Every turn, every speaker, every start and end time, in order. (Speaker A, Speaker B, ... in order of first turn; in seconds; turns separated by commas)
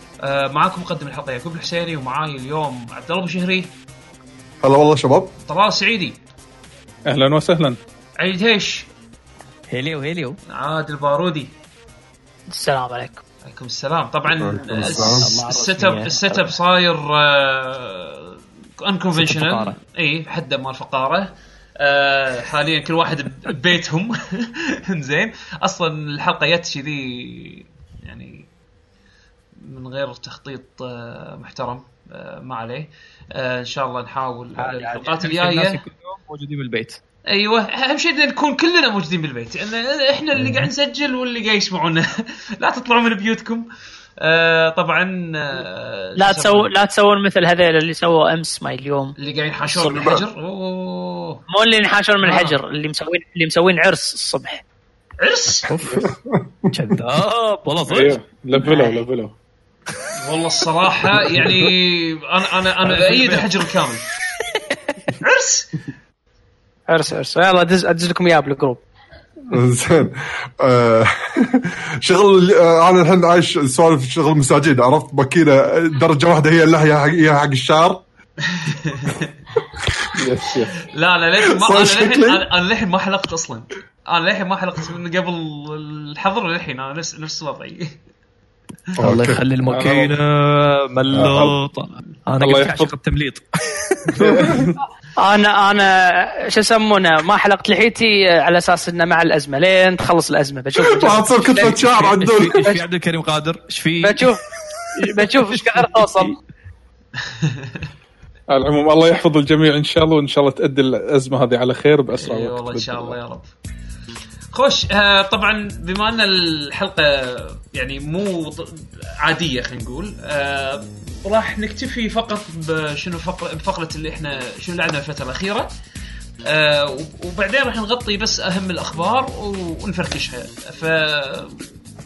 Speaker A: 0.2-3.7, Speaker B: 4.6-5.3, Speaker A: 5.5-6.2, Speaker C: 7.0-7.8, Speaker A: 8.2-8.9, Speaker D: 9.7-10.4, Speaker A: 10.5-11.5, Speaker E: 12.5-13.2, Speaker A: 13.4-28.5, Speaker B: 14.3-15.3, Speaker D: 14.8-16.4, Speaker E: 15.6-16.1, Speaker D: 19.1-19.8, Speaker A: 29.6-35.8, Speaker D: 34.6-37.0, Speaker A: 37.3-43.6, Speaker B: 40.4-40.6, Speaker A: 44.2-46.7, Speaker E: 46.2-49.1, Speaker A: 49.2-51.4, Speaker B: 49.7-50.2, Speaker E: 51.5-54.6, Speaker A: 52.2-52.6, Speaker A: 55.2-55.7, Speaker C: 55.8-56.1, Speaker B: 55.9-57.0, Speaker D: 56.7-58.2, Speaker C: 57.8-59.3, Speaker E: 58.5-59.0, Speaker A: 60.1-64.0, Speaker A: 65.2-65.8, Speaker E: 66.9-68.8, Speaker B: 69.5-78.0, Speaker A: 78.5-79.3, Speaker C: 80.1-80.8, Speaker A: 80.8-88.0, Speaker B: 81.5-82.4, Speaker D: 89.0-94.1, Speaker B: 89.0-89.4, Speaker C: 89.7-90.2, Speaker B: 91.1-91.5, Speaker C: 91.2-91.5, Speaker C: 92.4-92.9, Speaker C: 94.2-94.7, Speaker B: 94.2-94.7, Speaker E: 95.2-101.7, Speaker B: 100.8-102.8, Speaker D: 101.5-104.3, Speaker E: 104.0-104.4, Speaker E: 104.9-106.3, Speaker A: 107.2-107.8, Speaker C: 108.5-113.2, Speaker A: 112.2-113.5, Speaker A: 114.5-125.7, Speaker A: 126.4-131.6